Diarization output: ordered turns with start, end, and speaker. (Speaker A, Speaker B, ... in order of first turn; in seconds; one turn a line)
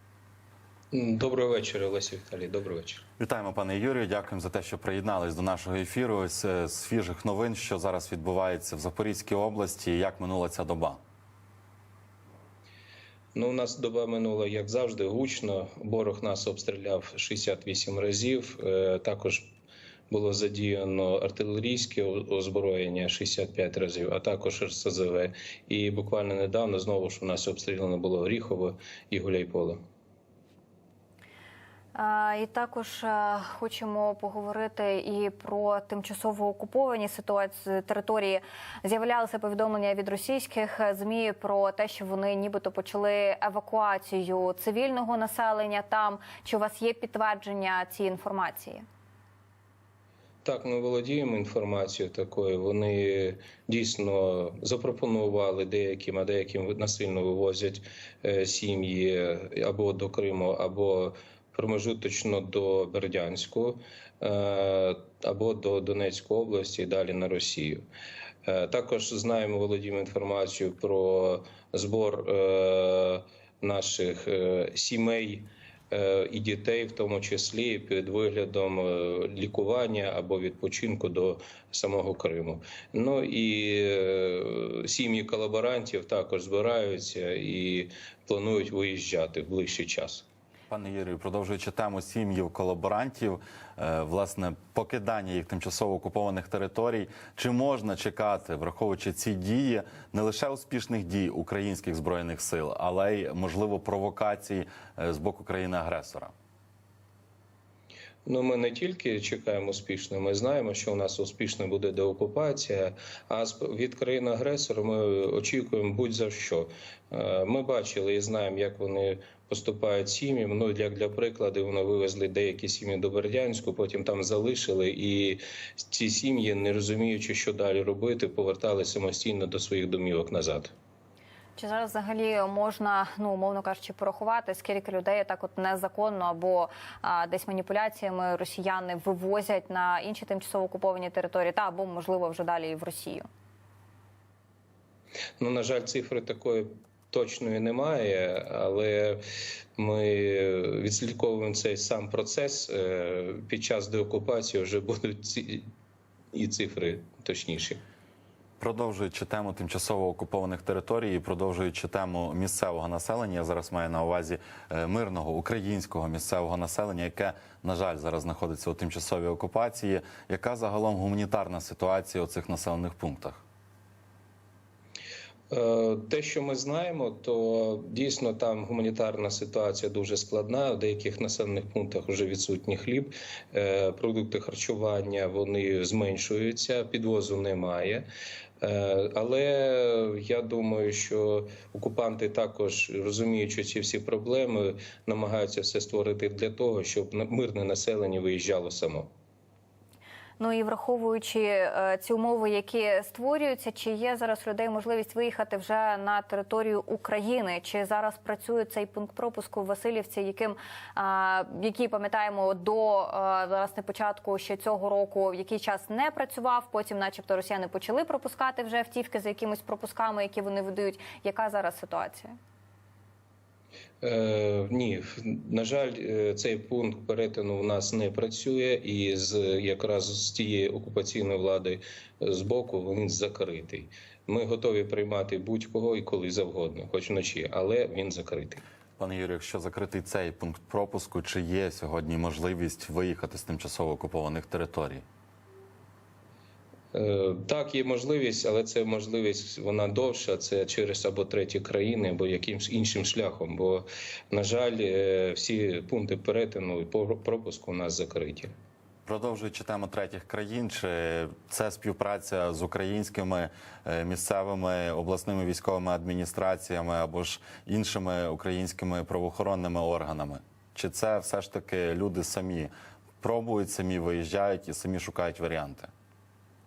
Speaker A: 0.9-3.0
Speaker B: 3.2-11.0
Speaker A: 13.3-19.5
Speaker A: 20.1-29.8
Speaker C: 31.9-48.8
Speaker A: 50.4-67.8
Speaker A: 68.5-90.2
Speaker B: 90.7-106.3
Speaker A: 108.2-130.7
Speaker C: 131.6-143.3
Speaker A: 145.4-149.2
Speaker A: 149.8-155.7
Speaker A: 156.3-157.8
Speaker B: 158.6-173.4
Speaker A: 175.5-188.1
Speaker A: 188.6-199.1
Speaker C: 200.4-222.3
Speaker A: 224.0-238.6
Speaker B: 239.0-245.0
Speaker A: 246.9-258.5
Speaker B: 259.1-275.9